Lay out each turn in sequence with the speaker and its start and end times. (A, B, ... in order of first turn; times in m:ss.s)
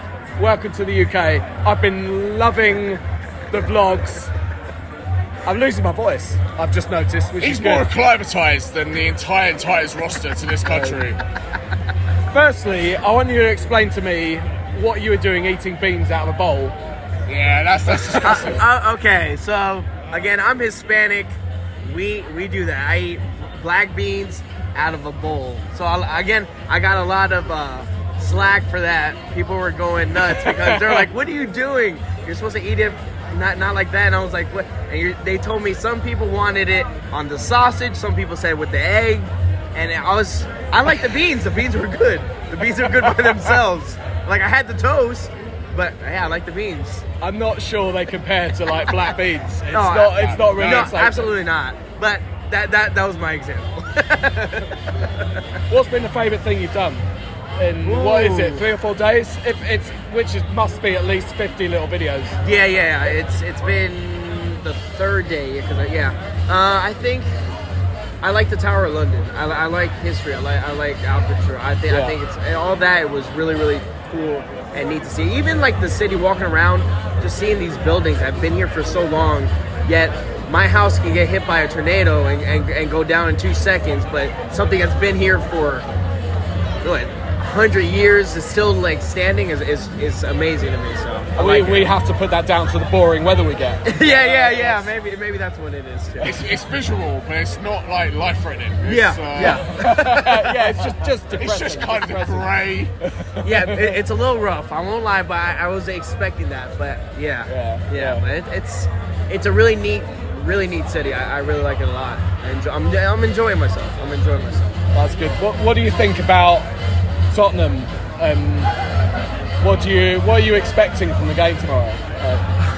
0:00.4-0:04.3 A
0:05.4-0:07.9 A
0:07.4-0:11.2 B
0:10.6-0:11.0 A
0:12.3-0:16.8 A
0:17.3-0:18.6 B
0:17.9-0:47.0 C
0:18.2-0:18.6 A
0:30.2-0:31.1 A
0:47.2-0:51.4 A
0:49.7-0:54.7 C
0:50.2-0:50.9 B
0:55.7-0:57.1 A
0:57.6-1:02.4 A
0:57.8-0:58.7 C
1:02.4-1:07.3 C
1:08.2-1:25.9 C
1:11.9-1:12.2 A
1:26.8-1:31.9 C
1:31.4-1:34.9 A
1:33.8-1:36.4 C
1:36.2-1:39.6 B
1:38.8-1:40.7 C
1:39.3-1:44.0 A
1:41.4-1:42.9 B
1:43.4-1:54.7 C
1:47.4-1:48.2 A
1:54.9-1:56.7 A
1:57.3-1:58.7 A
1:59.6-2:02.4 A